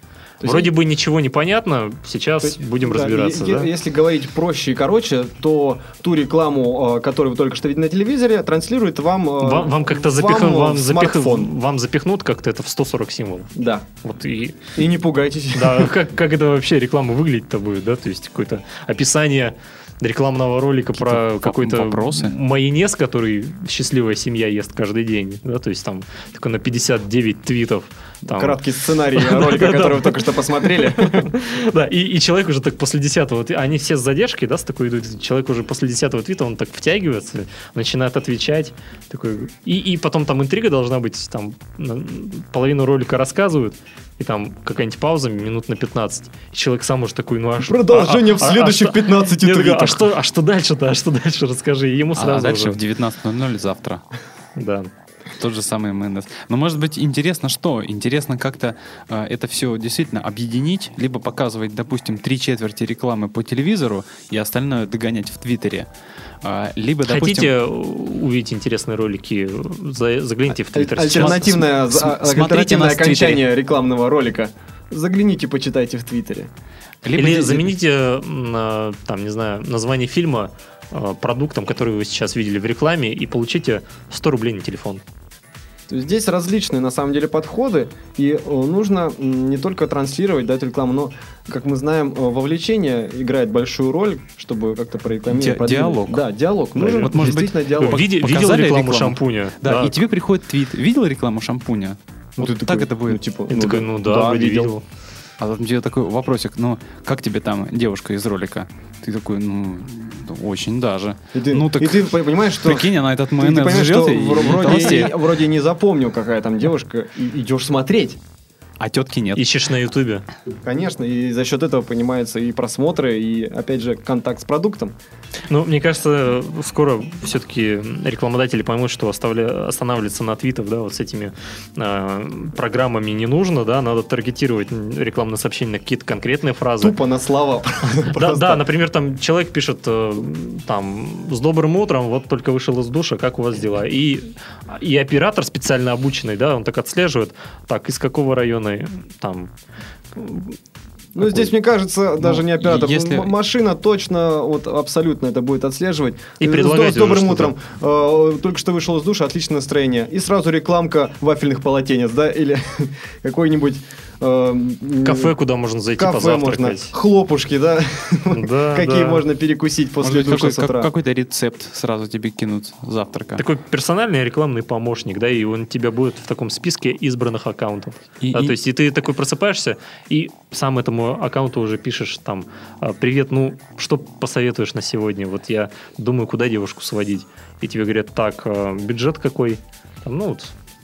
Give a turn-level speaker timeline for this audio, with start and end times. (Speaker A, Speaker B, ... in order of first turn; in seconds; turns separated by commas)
Speaker A: 0.4-0.7, Speaker B: 0.4-3.7, Speaker A: 2.4-11.5, Speaker B: 9.4-13.5, Speaker A: 13.5-13.8, Speaker B: 14.0-14.6, Speaker A: 14.8-15.9, Speaker B: 15.5-52.8, Speaker C: 20.9-22.4, Speaker A: 28.2-31.3, Speaker A: 47.6-50.1, Speaker C: 52.1-54.0, Speaker B: 54.5-54.9, Speaker C: 55.4-65.9, Speaker C: 66.4-67.5, Speaker B: 67.0-71.4, Speaker A: 70.7-76.5, Speaker C: 71.0-73.4, Speaker C: 77.0-77.7, Speaker B: 77.1-85.0, Speaker A: 85.9-98.0, Speaker C: 95.3-103.2, Speaker B: 97.8-100.0, Speaker A: 102.4-103.9, Speaker B: 103.5-104.8, Speaker C: 104.0-104.7, Speaker C: 105.4-112.1, Speaker A: 111.3-118.2, Speaker C: 112.6-115.2, Speaker C: 118.8-119.5, Speaker B: 119.3-120.2, Speaker A: 120.6-124.9, Speaker B: 125.5-136.9, Speaker A: 136.8-138.7, Speaker B: 138.1-149.5, Speaker B: 150.1-150.6, Speaker A: 151.1-165.3, Speaker C: 152.2-153.3, Speaker B: 156.4-157.5, Speaker B: 165.0-166.9, Speaker A: 166.0-170.9, Speaker B: 168.3-169.2, Speaker C: 170.0-173.4, Speaker B: 173.4-190.5, Speaker C: 178.2-178.6